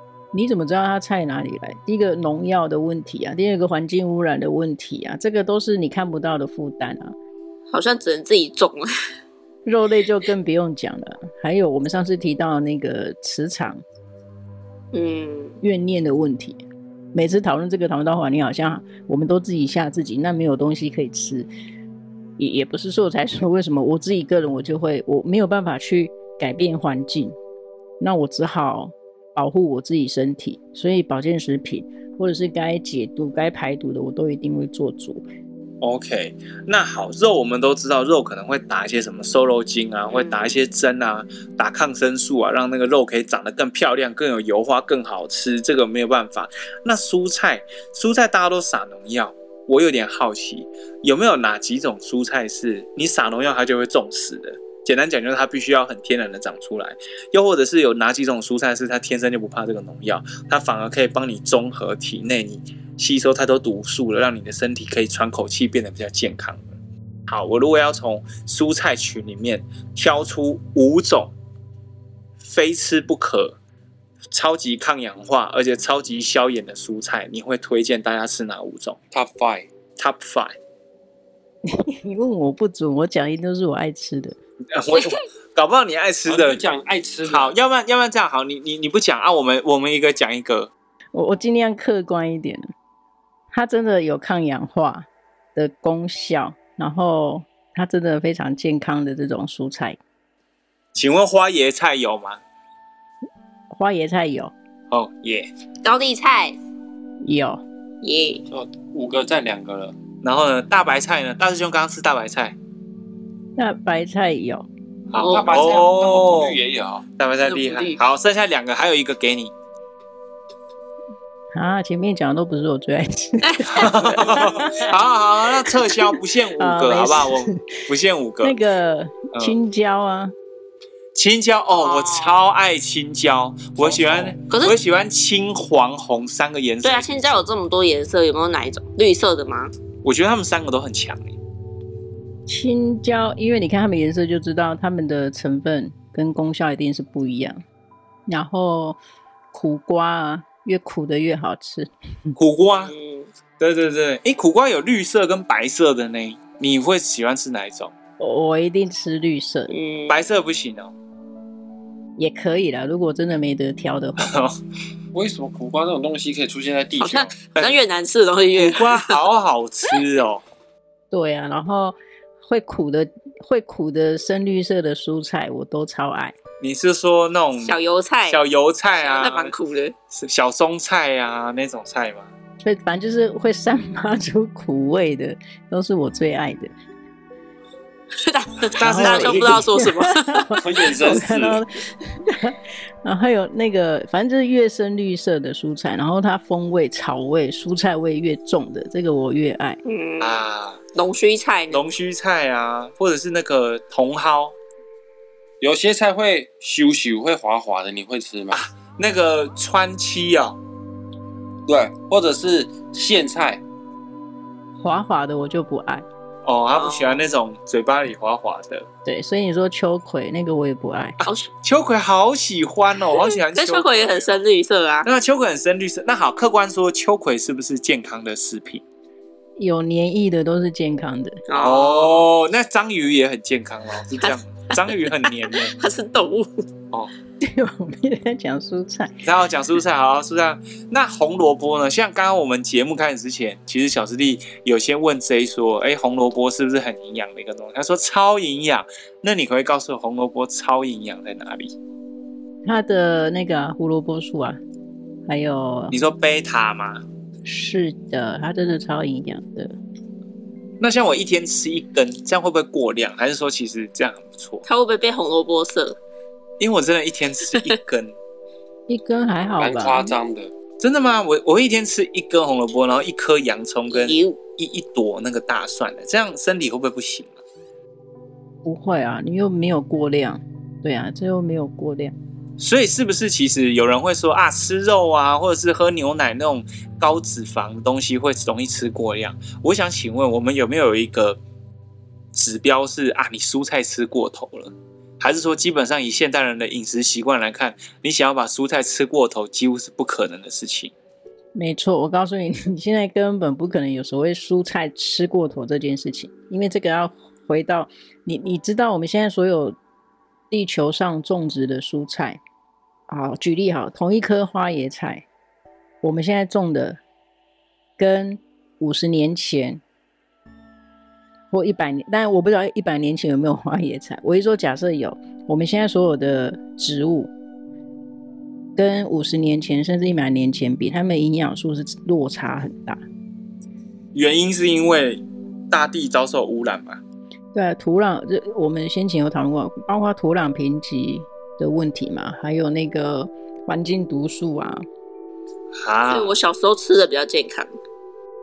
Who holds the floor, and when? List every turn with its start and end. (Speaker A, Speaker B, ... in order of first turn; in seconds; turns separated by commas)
Speaker A: 0.3-7.2, Speaker B: 7.7-8.9, Speaker A: 9.7-13.8, Speaker B: 14.9-15.6, Speaker A: 15.6-16.6, Speaker A: 17.1-21.5, Speaker A: 22.4-27.4, Speaker A: 28.0-35.2, Speaker C: 35.8-66.7, Speaker B: 40.1-40.6, Speaker C: 67.3-71.3, Speaker C: 72.4-73.6, Speaker C: 74.3-79.0, Speaker D: 79.1-79.7, Speaker C: 80.0-80.6, Speaker A: 81.7-84.4, Speaker C: 84.7-86.6, Speaker D: 86.3-87.6, Speaker C: 87.3-90.7, Speaker A: 91.1-92.7, Speaker A: 93.5-100.0, Speaker C: 100.9-102.4, Speaker A: 103.7-104.5, Speaker C: 104.9-105.5, Speaker B: 105.8-106.6, Speaker A: 107.2-107.6, Speaker B: 108.0-108.4, Speaker D: 108.5-110.0, Speaker C: 110.2-112.6, Speaker A: 113.6-114.7, Speaker C: 115.1-116.6, Speaker B: 115.2-115.8, Speaker D: 115.2-117.0, Speaker C: 117.2-119.5, Speaker B: 117.4-118.0, Speaker A: 121.5-124.8, Speaker B: 123.4-125.0, Speaker C: 123.7-128.6, Speaker A: 126.6-127.8, Speaker A: 128.4-130.3, Speaker C: 129.3-129.6, Speaker C: 131.2-137.4, Speaker B: 131.7-132.4, Speaker D: 133.8-134.3, Speaker B: 134.5-134.8, Speaker B: 136.8-139.7, Speaker C: 140.0-141.3, Speaker A: 142.5-147.6, Speaker A: 148.3-149.0, Speaker A: 149.5-152.4, Speaker C: 152.4-152.9, Speaker B: 152.8-153.3, Speaker C: 153.6-157.9, Speaker A: 158.2-159.7, Speaker B: 159.7-160.2, Speaker C: 160.1-160.9, Speaker A: 162.2-164.4, Speaker C: 164.2-164.6, Speaker D: 165.1-167.4, Speaker B: 167.0-169.2, Speaker C: 168.6-170.4, Speaker A: 171.1-176.4, Speaker C: 176.6-177.8, Speaker B: 177.6-178.4, Speaker C: 178.3-179.5, Speaker B: 179.0-179.9, Speaker C: 180.1-182.3, Speaker A: 182.6-186.7, Speaker B: 188.2-190.6, Speaker C: 188.7-189.6, Speaker A: 188.8-199.8, Speaker D: 190.6-191.6, Speaker B: 199.8-200.4, Speaker C: 200.2-200.8, Speaker B: 200.9-201.9, Speaker C: 201.7-204.6, Speaker D: 205.6-208.6, Speaker C: 208.5-210.6, Speaker D: 211.7-213.6, Speaker A: 214.8-216.1, Speaker C: 216.4-218.9, Speaker B: 216.7-217.3, Speaker A: 219.1-221.2, Speaker C: 221.2-224.4, Speaker B: 221.2-221.5, Speaker B: 223.1-225.1, Speaker C: 225.1-228.8, Speaker A: 229.6-231.4, Speaker B: 231.5-232.3, Speaker C: 231.6-235.7, Speaker B: 234.2-236.6, Speaker A: 237.4-239.2, Speaker C: 239.2-251.7, Speaker A: 252.7-254.6, Speaker A: 255.3-255.9, Speaker C: 255.9-257.0, Speaker A: 257.4-259.7, Speaker C: 260.8-264.6, Speaker B: 264.6-266.0, Speaker C: 266.6-268.1, Speaker A: 268.9-270.1, Speaker D: 269.6-270.5, Speaker C: 270.8-277.4, Speaker B: 273.9-274.4, Speaker A: 278.6-282.1, Speaker C: 282.6-291.4, Speaker C: 292.3-300.9, Speaker A: 301.6-309.8, Speaker A: 310.5-312.4, Speaker A: 313.1-315.2, Speaker A: 316.0-317.0, Speaker A: 318.0-319.8, Speaker A: 321.5-327.3, Speaker A: 328.8-333.0, Speaker C: 334.1-337.0, Speaker A: 337.5-344.9, Speaker C: 345.7-346.4, Speaker B: 346.1-347.7